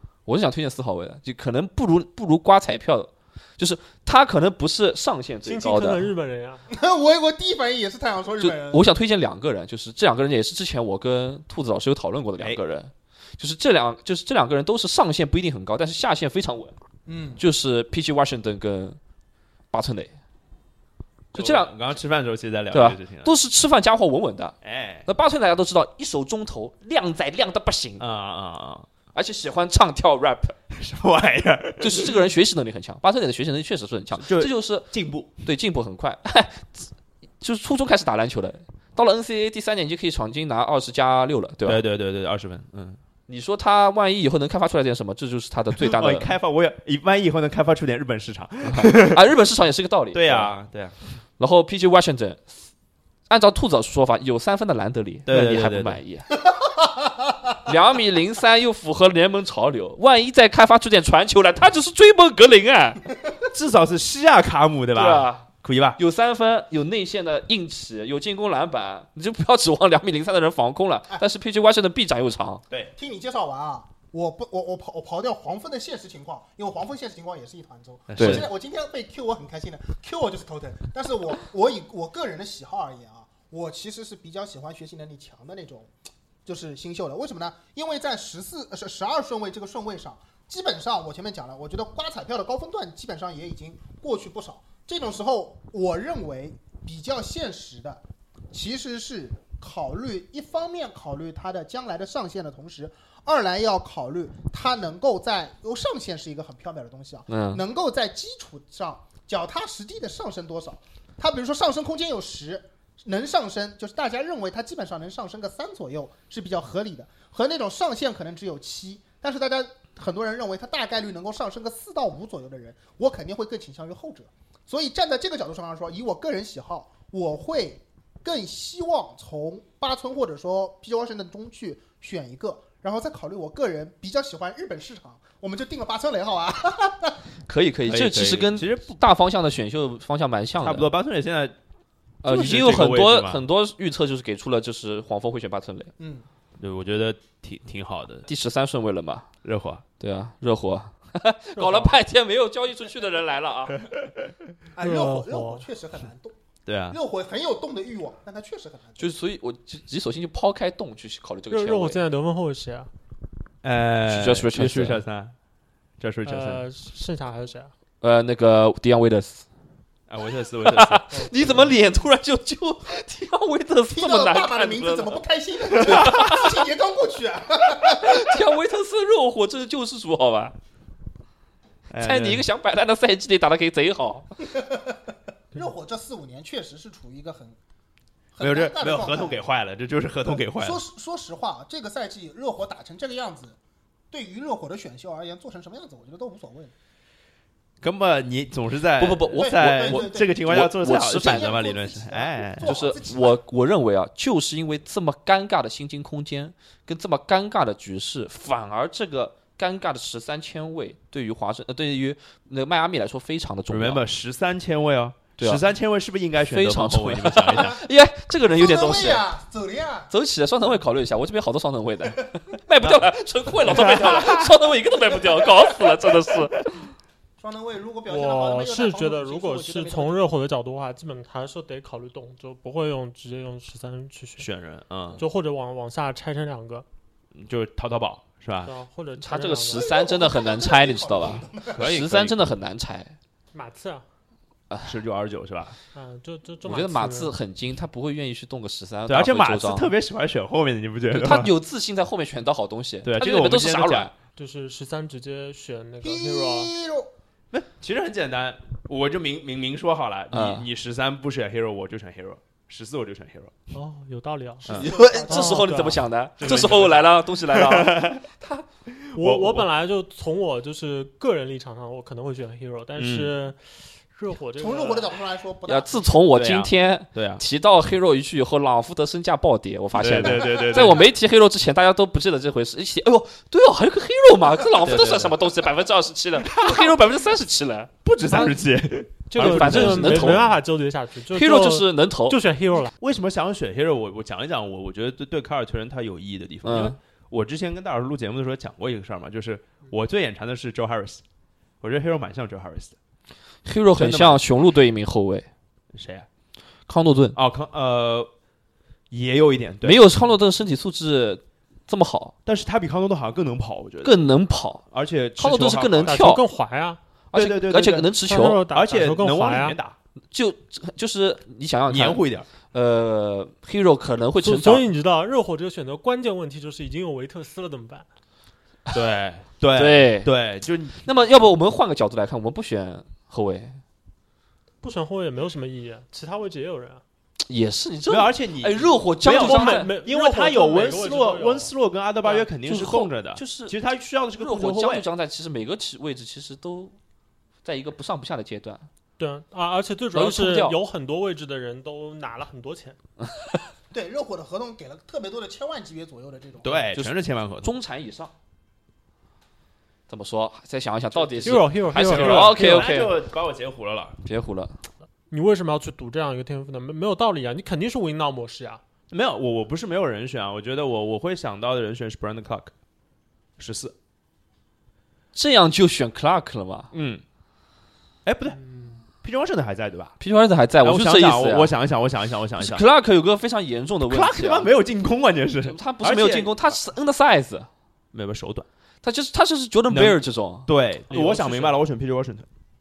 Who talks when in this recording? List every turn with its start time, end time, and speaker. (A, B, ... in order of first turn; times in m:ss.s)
0:00.3-0:06.1 A
0:05.4-0:06.7 B
0:06.7-0:08.8 C
0:08.4-0:16.8 A
0:17.1-0:17.4 C
0:17.4-0:19.0 A
0:19.7-0:20.1 A
0:21.3-0:21.7 A
0:21.3-0:23.3 D
0:22.7-0:28.0 A
0:24.6-0:25.1 D
0:28.0-0:28.9 D
0:29.1-0:30.6 A
0:30.7-0:32.1 D
0:31.8-0:34.9 A
0:34.2-0:35.4 D
0:35.4-0:36.9 A
0:37.4-0:41.8 A
0:41.6-0:43.0 D
0:43.3-0:46.3 A
0:45.8-0:49.2 D
0:48.6-0:50.5 A
0:50.2-0:51.0 D
0:51.4-0:52.5 A
0:53.3-0:56.3 A
0:55.3-0:56.0 D
0:56.7-0:57.1 C
0:57.6-1:03.0 A
1:03.5-1:06.0 D
1:05.0-1:12.6 A
1:13.0-1:25.9 C
1:18.1-1:18.5 D
1:18.2-1:18.4 A
1:26.4-2:17.2 C
1:47.3-1:47.6 A
2:17.5-2:20.9 A
2:17.9-2:19.0 D
2:20.6-2:21.6 D
2:22.2-2:25.9 A
2:22.2-2:23.4 D
2:26.0-2:26.3 C
2:26.6-2:28.3 D
2:28.3-2:29.3 A
2:29.4-2:29.8 D
2:30.0-2:33.8 A
2:31.6-2:32.0 B
2:34.8-2:36.4 C
2:34.8-2:35.7 B
2:36.7-2:37.0 D
2:36.9-2:39.1 C
2:39.0-2:42.0 A
2:41.5-2:42.9 B
2:43.6-2:45.4 D
2:44.1-2:45.0 A
2:46.0-2:46.6 D
2:46.3-2:47.7 B
2:48.0-2:49.4 A
2:50.1-2:51.0 D
2:50.6-2:55.2 A
2:51.1-2:51.6 B
2:53.9-2:58.4 C
2:55.8-2:56.5 A
2:55.8-2:56.2 D
2:57.8-3:00.6 A
3:01.9-3:02.4 D
3:02.0-3:04.3 A
3:04.5-3:07.6 C
3:08.3-3:09.4 C
3:08.4-3:10.8 D
3:10.2-3:13.6 C
3:14.1-3:16.7 C
3:17.8-3:22.8 D
3:19.0-3:21.6 A
3:19.4-3:23.4 C
3:22.6-3:34.0 A
3:33.7-3:37.8 D
3:35.4-3:35.6 A
3:36.5-3:39.2 A
3:38.5-3:40.1 C
3:40.1-3:46.8 A
3:43.6-3:44.5 D
3:47.4-3:50.2 C
3:48.1-3:54.5 B
3:54.4-3:55.2 D
3:55.2-3:56.8 B
3:57.4-3:58.7 D
3:58.6-3:59.9 B
3:59.2-4:03.2 A
3:59.7-4:01.9 C
4:01.7-4:02.5 D
4:03.5-4:04.0 B
4:04.7-4:05.0 A
4:04.9-4:05.8 D
4:05.9-4:07.3 B
4:06.6-4:09.9 A
4:09.1-4:11.5 D
4:11.1-4:14.1 A
4:13.0-4:14.1 D
4:14.4-4:16.7 B
4:16.0-4:17.1 C
4:17.5-4:23.6 D
4:20.3-4:20.6 A
4:23.7-4:26.0 B
4:24.7-4:24.9 D
4:24.7-4:25.7 C
4:24.7-4:28.7 A
4:26.4-4:28.2 D
4:28.9-4:29.7 D
4:29.2-4:35.2 B
4:33.0-4:33.3 D
4:34.6-4:36.1 C
4:35.7-4:47.9 A
4:36.3-4:37.4 D
4:39.9-4:41.1 D
4:40.4-4:40.9 C
4:44.8-4:45.3 D
4:46.4-4:46.9 D
4:48.0-4:50.5 D
4:48.3-4:48.6 B
4:49.3-4:52.9 B
4:49.4-4:50.6 A
4:51.3-4:52.4 A
4:53.0-5:01.2 D
4:56.6-4:57.0 A
5:01.8-5:03.0 D
5:03.6-5:05.5 A
5:04.0-5:04.4 D
5:05.9-5:06.3 D
5:06.9-5:07.4 A
5:07.4-5:08.3 D
5:09.1-5:10.0 D
5:09.8-5:12.3 A
5:12.5-5:14.2 D
5:14.0-5:14.8 A
5:14.9-5:16.2 D
5:15.4-5:16.4 A
5:16.1-5:17.0 B
5:17.3-5:18.6 A
5:17.4-5:18.1 D
5:18.2-5:19.8 B
5:18.7-5:20.0 D
5:20.3-5:24.9 A
5:21.9-5:22.5 D
5:24.4-5:28.1 B
5:28.9-5:31.0 D
5:29.8-5:30.3 A
5:31.0-5:33.8 A
5:34.8-5:37.0 B
5:37.5-5:39.9 A
5:38.1-5:45.1 D
5:39.3-5:41.7 B
5:42.7-5:43.8 A
5:44.4-5:47.0 A
5:47.6-5:48.9 A
5:49.2-5:53.0 B
5:50.1-5:50.8 A
5:53.9-5:56.9 C
5:56.6-5:57.7 D
5:56.9-5:58.3 A
6:00.1-6:03.1 A
6:01.3-6:04.2 D
6:01.4-6:02.6 B
6:04.2-6:04.8 A
6:05.3-6:08.8 B
6:09.1-6:12.7 D
6:13.6-6:13.9 D
6:15.3-6:16.9 A
6:16.9-6:17.2 D
6:18.2-6:18.6 D
6:18.6-6:19.0 B
6:19.2-6:20.2 D
6:20.2-6:21.7 A
6:20.8-6:22.8 D
6:22.6-6:24.7 A
6:24.1-6:26.8 D
6:25.6-6:27.7 A
6:28.1-6:28.7 D
6:29.0-6:31.7 A
6:29.9-6:32.5 D